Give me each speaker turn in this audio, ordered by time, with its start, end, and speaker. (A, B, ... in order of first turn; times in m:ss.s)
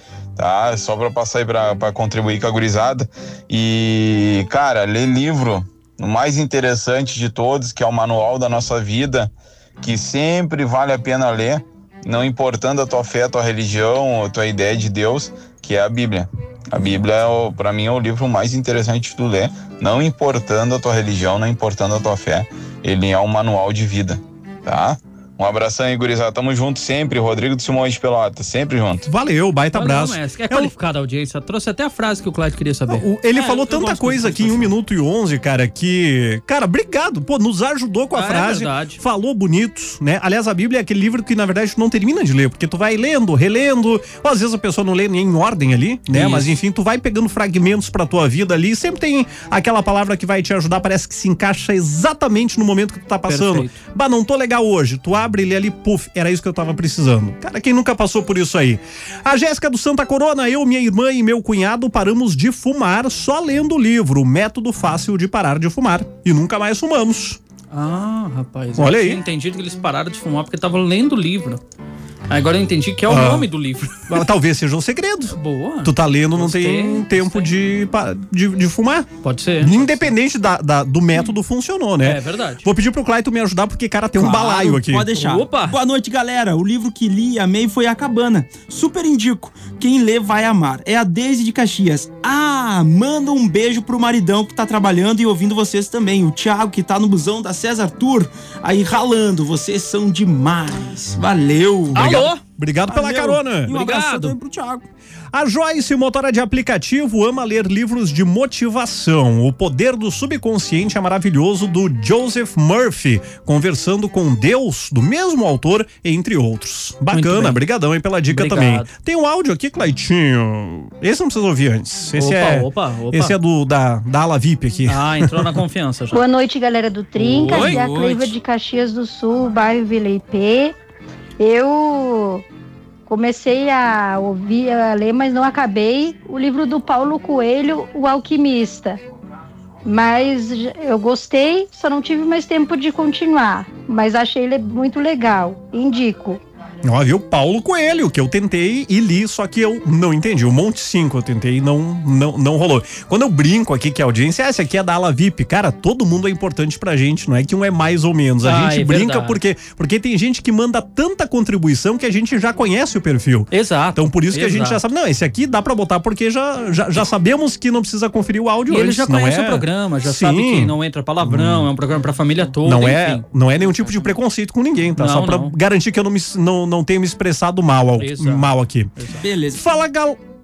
0:00.4-0:29.1 A
0:29.1-0:30.7 B
0:29.7-0:33.1 C
0:32.9-1:07.4 B
0:33.3-0:34.7 D
0:38.1-0:39.0 C
0:46.1-0:46.5 C
0:53.3-0:53.8 C
1:07.7-1:11.6 C
1:08.8-1:09.2 B
1:12.3-1:14.2 C
1:13.1-1:13.5 B
1:14.1-1:25.1 B
1:15.3-1:17.5 C
1:19.2-1:20.1 C
1:22.0-1:22.7 C
1:24.2-1:42.3 D
1:25.2-1:25.8 C
1:41.9-1:43.8 B
1:41.9-1:42.4 C
1:42.9-1:44.9 D
1:43.7-1:44.4 C
1:45.3-2:05.6 B
1:57.1-1:57.6 C
1:58.3-1:58.9 C
2:02.2-2:03.4 C
2:04.9-2:06.2 C
2:06.1-2:10.8 E
2:07.2-2:08.3 C
2:11.4-2:12.4 E
2:13.1-2:19.0 E
2:19.8-2:26.4 E
2:26.8-2:51.7 B
2:38.4-2:39.4 C
2:43.5-2:44.8 C
2:48.7-2:54.2 C
2:52.6-2:58.9 B
2:55.0-2:55.6 C
2:58.0-2:59.2 C
2:59.2-2:59.7 D
2:59.5-3:00.2 B